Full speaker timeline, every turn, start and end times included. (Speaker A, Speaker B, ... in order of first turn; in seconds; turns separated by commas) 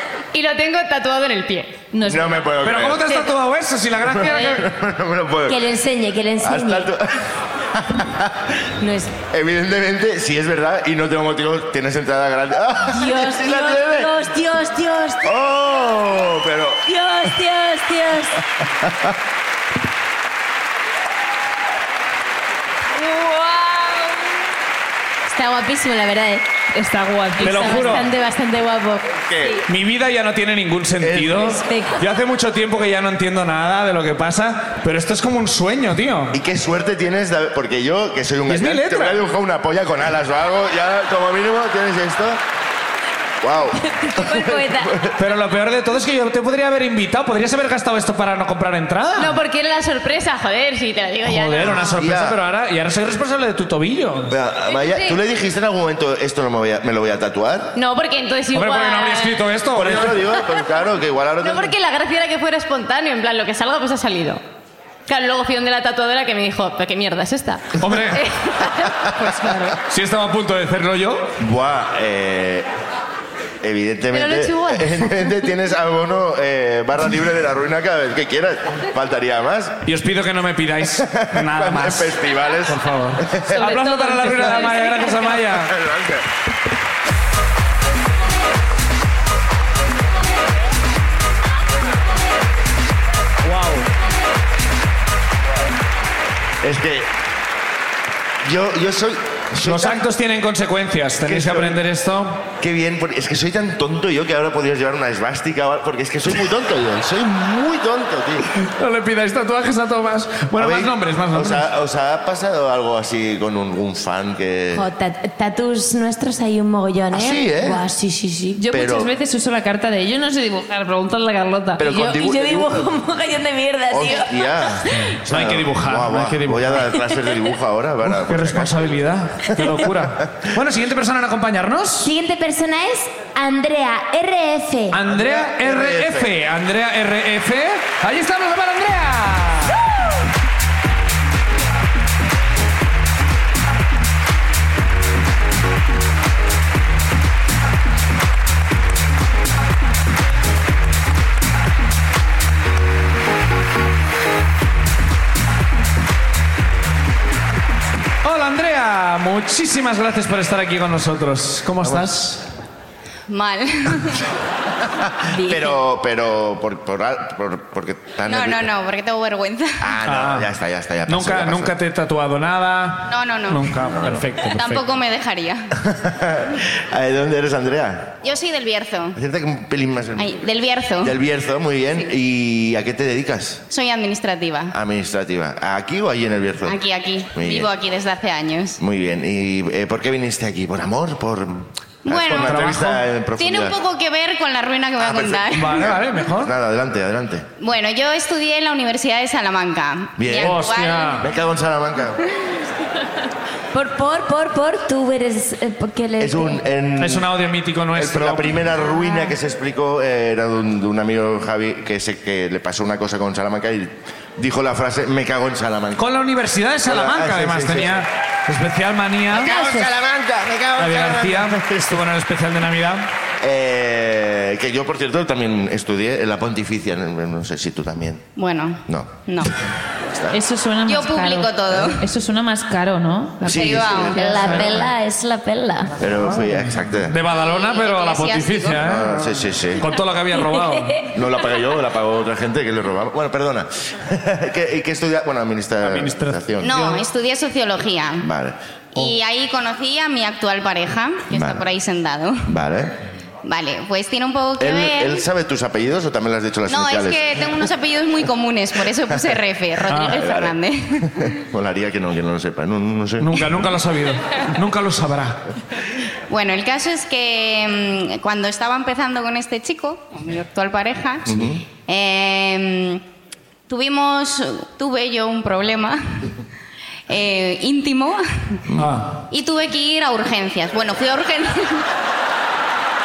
Speaker A: 0.3-1.8, Speaker B: 1.9-2.5, Speaker C: 2.0-3.1, Speaker D: 2.6-4.7, Speaker C: 4.0-5.7, Speaker E: 5.5-6.9, Speaker C: 6.4-8.6, Speaker E: 8.8-9.1, Speaker C: 9.3-14.1, Speaker E: 12.9-15.3, Speaker C: 15.2-16.8, Speaker E: 16.8-18.4, Speaker C: 18.6-19.1, Speaker E: 23.0-23.9, Speaker E: 25.3-26.4, Speaker B: 26.7-28.1, Speaker E: 27.4-29.6, Speaker D: 27.4-28.1, Speaker C: 29.1-29.6, Speaker D: 29.6-36.3, Speaker C: 31.0-31.6, Speaker E: 31.5-32.1, Speaker C: 36.3-42.4, Speaker D: 38.5-39.2, Speaker C: 43.4-45.1, Speaker E: 43.8-45.0, Speaker D: 45.1-49.4, Speaker A: 49.1-52.0, Speaker D: 51.2-54.3, Speaker C: 51.8-52.4, Speaker C: 54.3-57.7, Speaker A: 54.7-55.2, Speaker A: 57.7-59.4, Speaker D: 58.5-60.2, Speaker C: 59.7-61.7, Speaker A: 61.4-64.4, Speaker A: 65.1-69.8, Speaker D: 67.8-68.2, Speaker D: 69.8-71.3, Speaker C: 71.4-72.7, Speaker C: 73.6-79.8, Speaker A: 74.1-75.2, Speaker D: 79.8-85.7, Speaker C: 81.0-83.6, Speaker B: 83.6-84.9, Speaker A: 83.6-85.1, Speaker C: 85.4-86.2, Speaker D: 93.5-93.8, Speaker C: 96.6-97.1, Speaker C: 98.4-100.0, Speaker D: 99.6-102.4, Speaker C: 101.2-101.8, Speaker C: 102.6-108.5, Speaker D: 108.6-111.6, Speaker C: 110.5-114.8, Speaker E: 114.7-118.6, Speaker C: 117.1-117.8, Speaker B: 118.6-121.9, Speaker C: 118.7-119.1, Speaker C: 121.8-122.9, Speaker E: 121.8-125.1, Speaker C: 123.9-128.9, Speaker D: 124.9-126.9, Speaker E: 127.1-127.3, Speaker D: 128.1-132.1, Speaker E: 132.0-135.0, Speaker D: 134.9-139.8, Speaker C: 135.1-136.3, Speaker D: 158.2-162.4, Speaker C: 161.8-162.1, Speaker F: 163.3-164.2, Speaker C: 164.9-168.7, Speaker F: 168.3-169.9, Speaker C: 169.8-171.7, Speaker D: 170.0-170.5, Speaker D: 171.1-174.8, Speaker F: 173.1-173.9, Speaker C: 173.9-174.2, Speaker F: 174.5-175.7, Speaker C: 175.8-178.2, Speaker F: 178.2-179.2, Speaker C: 179.1-180.4, Speaker F: 180.2-181.1, Speaker C: 181.0-183.6, Speaker F: 183.7-184.7, Speaker C: 184.7-186.8, Speaker F: 186.6-188.8, Speaker C: 187.3-187.7, Speaker C: 188.8-193.8, Speaker F: 192.1-192.8, Speaker D: 192.3-193.0, Speaker F: 193.4-195.8, Speaker C: 195.0-197.4, Speaker D: 195.5-196.5, Speaker F: 197.6-201.2, Speaker C: 200.2-202.2, Speaker D: 200.3-201.3, Speaker E: 203.7-206.6, Speaker C: 206.2-207.3, Speaker D: 207.0-208.6, Speaker C: 207.9-216.1, Speaker E: 208.8-209.3, Speaker D: 216.0-219.5, Speaker C: 216.8-218.0, Speaker C: 219.3-222.0, Speaker D: 220.8-223.1, Speaker C: 223.4-228.2, Speaker F: 228.3-229.5, Speaker C: 228.8-229.2, Speaker C: 230.0-230.4, Speaker B: 230.3-234.6, Speaker F: 230.8-232.1, Speaker C: 233.4-234.9, Speaker F: 233.5-234.2, Speaker E: 234.1-236.1, Speaker D: 234.4-234.8, Speaker C: 236.0-237.2, Speaker D: 236.2-241.0, Speaker F: 237.3-238.9, Speaker C: 238.8-239.9, Speaker C: 241.0-246.8, Speaker D: 245.8-247.0, Speaker F: 246.6-248.3, Speaker C: 248.2-248.6, Speaker F: 248.9-252.5, Speaker C: 251.3-251.6, Speaker C: 252.5-253.0, Speaker F: 253.4-255.2, Speaker C: 254.6-257.6, Speaker F: 256.7-261.3, Speaker D: 259.9-260.2, Speaker C: 259.9-263.7, Speaker D: 263.2-265.4, Speaker F: 266.3-273.0, Speaker C: 271.2-271.6, Speaker F: 273.7-276.2, Speaker F: 277.1-278.6, Speaker D: 278.8-279.2, Speaker F: 279.3-281.9